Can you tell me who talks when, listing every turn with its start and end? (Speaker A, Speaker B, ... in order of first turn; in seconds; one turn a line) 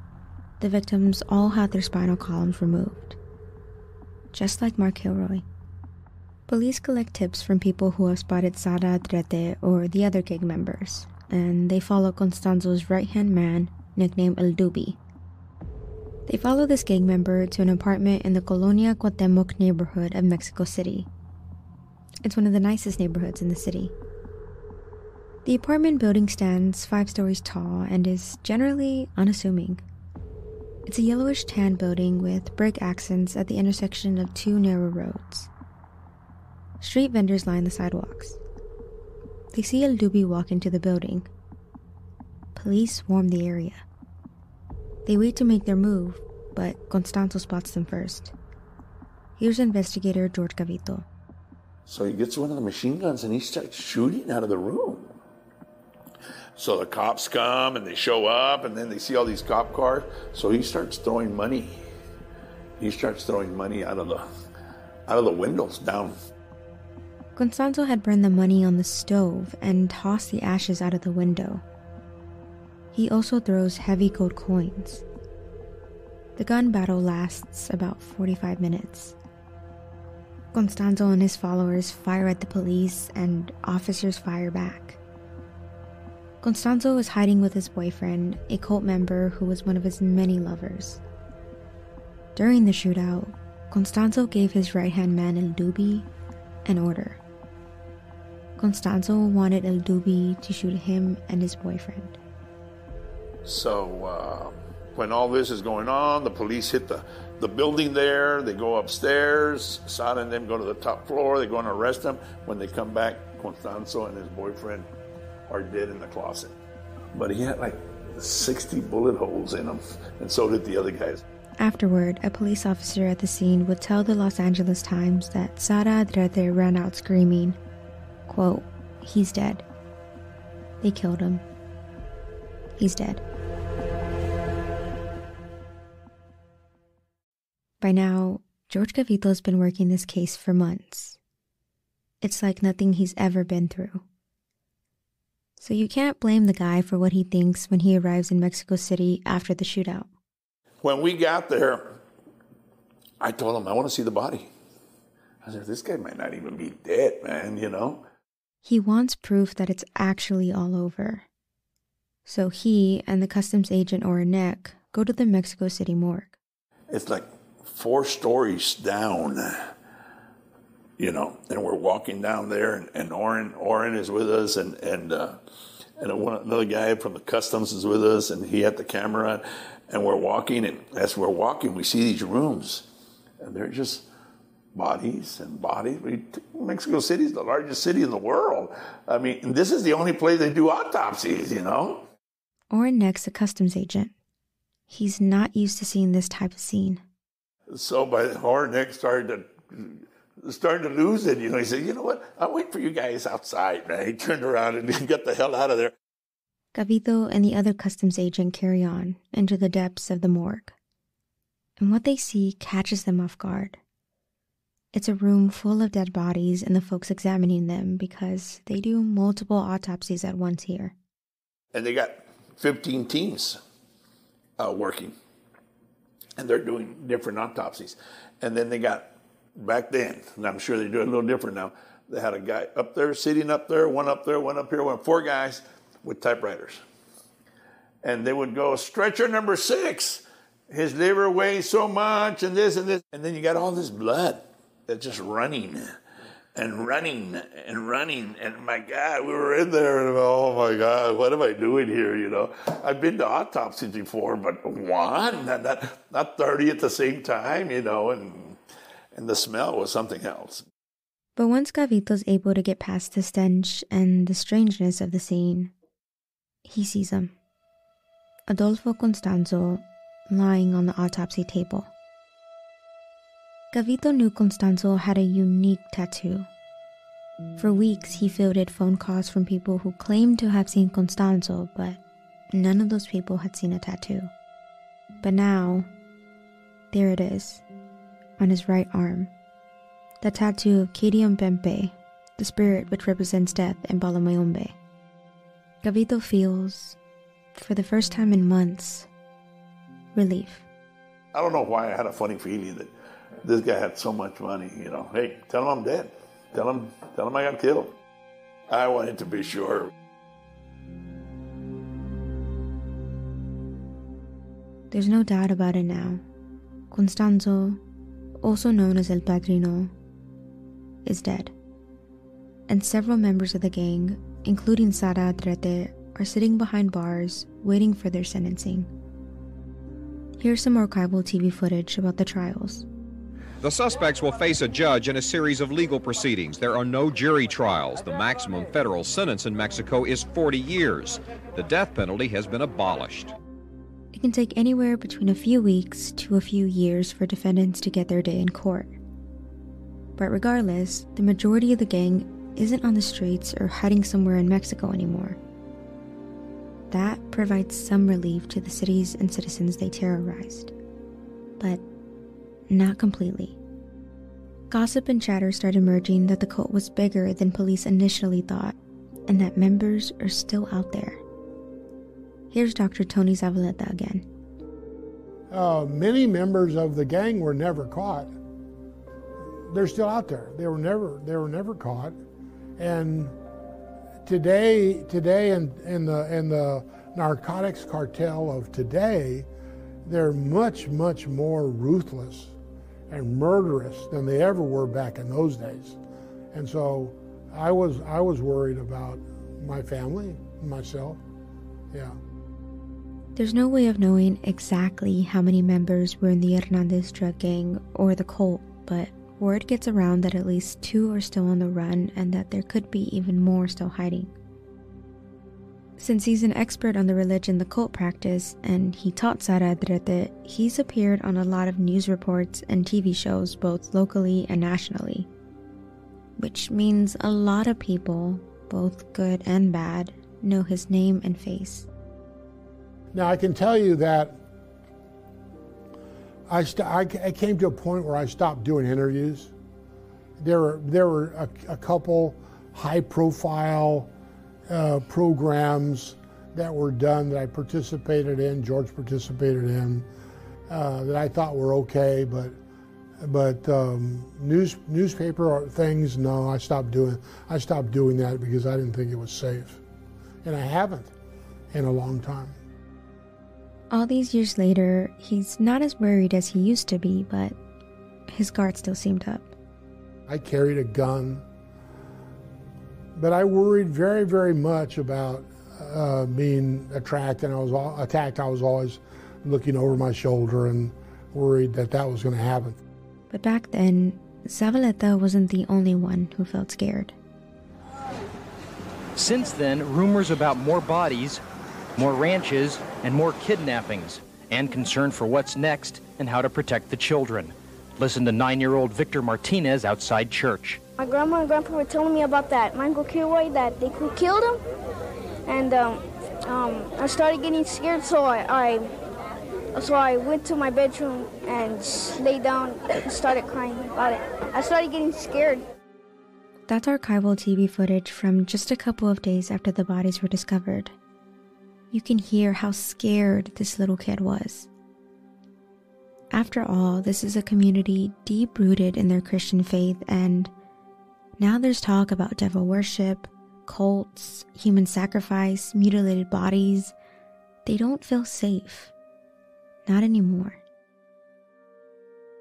Speaker A: 0.6-3.2
Speaker A: 4.3-5.4
Speaker A: 6.5-15.0
Speaker A: 16.3-21.1
Speaker A: 22.2-23.9
Speaker A: 25.4-29.8
Speaker A: 30.9-35.5
Speaker A: 36.8-38.4
Speaker A: 39.5-41.3
Speaker A: 42.5-43.8
Speaker A: 45.0-48.3
Speaker A: 49.4-51.0
Speaker B: 51.9-55.1
Speaker B: 56.6-61.8
Speaker B: 62.8-64.3
Speaker B: 65.1-66.1
Speaker A: 67.3-71.6
Speaker A: 72.9-75.0
Speaker A: 76.4-79.2
Speaker A: 80.5-85.0
Speaker A: 86.4-91.0
Speaker A: 92.3-96.1
Speaker A: 96.7-97.2
Speaker A: 98.6-102.2
Speaker B: 103.4-114.8
Speaker B: 115.5-116.5
Speaker B: 117.1-121.2
Speaker A: 121.6-127.6
Speaker A: 128.3-129.6
Speaker A: 130.8-131.4
Speaker A: 132.8-133.2
Speaker A: 137.8-141.2
Speaker A: 142.2-144.0
Speaker A: 145.6-150.1
Speaker B: 150.8-152.0
Speaker B: 153.2-154.5
Speaker B: 155.4-158.0
Speaker A: 158.6-161.2
Speaker A: 162.2-166.3
Speaker B: 166.9-169.7
Speaker B: 171.0-175.4
Speaker B: 176.0-182.8
Speaker B: 183.4-184.1
Speaker B: 184.7-192.1
Speaker A: 192.7-194.1
Speaker A: 194.9-197.0
Speaker B: 197.7-205.9
Speaker A: 206.7-210.7
Speaker A: 211.8-213.8
Speaker A: 214.9-220.9
Speaker B: 221.7-223.6
Speaker B: 224.6-225.1
Speaker B: 226.4-236.8
Speaker B: 238.0-246.0
Speaker B: 246.5-258.6
Speaker B: 259.1-260.6
Speaker A: 261.4-265.7
Speaker A: 266.6-267.3
Speaker A: 268.5-271.9
Speaker A: 273.7-276.5
Speaker A: 277.6-282.0
Speaker A: 282.5-284.3
Speaker A: 285.2-285.9
Speaker A: 286.9-287.6
Speaker A: 288.4-289.3
Speaker A: 290.2-294.7
Speaker A: 295.8-297.0
Speaker A: 297.5-299.1
Speaker A: 300.1-300.6
Speaker B: 301.3-302.9
Speaker B: 303.4-307.9
Speaker B: 308.7-309.9
Speaker A: 314.9-316.2
Speaker A: 316.9-317.8
Speaker A: 318.4-319.9
Speaker A: 321.0-321.5
Speaker A: 322.7-328.9
Speaker A: 330.4-332.9
Speaker C: 333.6-343.3
Speaker A: 344.1-349.0
Speaker A: 350.2-355.4
Speaker A: 356.9-360.7
Speaker A: 362.7-363.6
Speaker A: 364.7-368.8
Speaker A: 369.3-371.2
Speaker A: 372.5-374.3
Speaker D: 375.5-378.3
Speaker D: 379.7-382.2
Speaker D: 382.8-383.3
Speaker D: 384.2-389.5
Speaker D: 390.0-392.5
Speaker D: 393.1-396.0
Speaker D: 396.5-401.2
Speaker D: 401.9-402.2
Speaker A: 403.4-414.3
Speaker A: 416.0-425.3
Speaker A: 426.4-431.9
Speaker D: 433.1-434.4
Speaker D: 436.5-439.5
Speaker D: 440.4-444.1
Speaker D: 444.7-450.1
Speaker D: 450.7-452.6
Speaker D: 453.2-459.8
Speaker D: 460.4-461.1
Speaker D: 461.7-462.6
Speaker A: 463.9-467.6
Speaker A: 468.3-469.5
Speaker D: 470.3-471.4
Speaker D: 473.1-482.8
Speaker A: 483.3-487.1
Speaker E: 489.1-491.4
Speaker E: 491.9-500.8
Speaker F: 501.0-504.6
Speaker F: 505.4-508.9
Speaker F: 509.7-515.6
Speaker A: 516.7-520.9
Speaker A: 521.9-524.7
Speaker A: 526.3-530.5
Speaker A: 531.4-536.9
Speaker A: 537.6-538.9
Speaker A: 539.9-540.6